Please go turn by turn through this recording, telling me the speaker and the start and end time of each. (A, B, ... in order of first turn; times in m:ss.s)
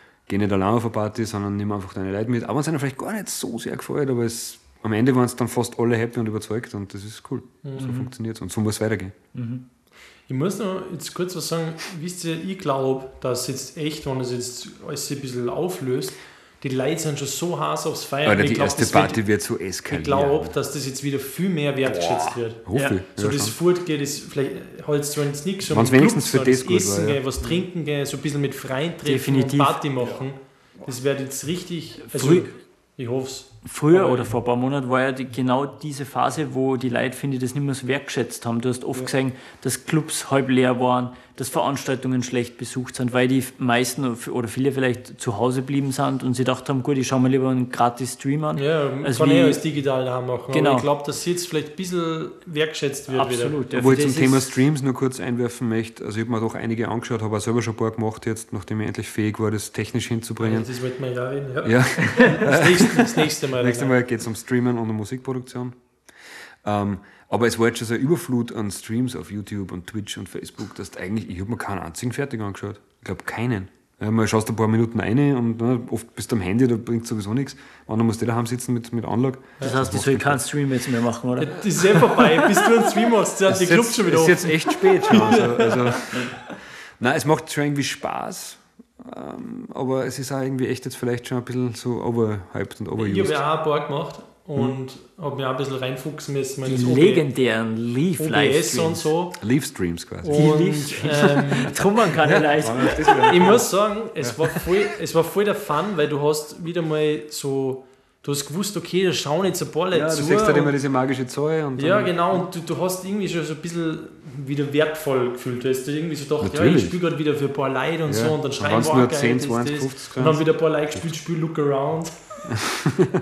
0:00.3-0:09.1 A
0:07.6-0:08.1 B
0:09.3-0:09.6 C
0:10.3-0:19.2 B
0:18.2-0:20.5 A
0:19.8-0:34.3 B
0:21.8-0:23.5 A
0:22.7-0:23.0 C
0:25.7-0:27.2 A
0:29.0-0:29.8 C
0:32.0-0:32.5 C
0:33.6-0:49.6 C
0:48.6-0:53.6 B
0:50.5-0:50.9 C
0:53.1-0:54.5 C
0:53.7-1:00.7 A
1:00.4-1:03.9 B
1:01.6-1:05.8 A
1:06.6-1:20.4 A
1:19.6-1:22.1 C
1:21.4-1:26.3 B
1:23.5-1:33.4 A
1:33.0-1:37.2 B
1:36.6-1:39.1 C
1:38.2-1:39.4 B
1:39.4-1:40.9 A
1:40.2-1:41.7 B
1:40.3-1:43.6 C
1:42.2-1:44.6 A
1:43.2-1:50.7 B
1:49.9-1:52.4 A
1:51.8-2:02.6 B
1:56.4-1:57.0 A
1:58.0-2:01.1 A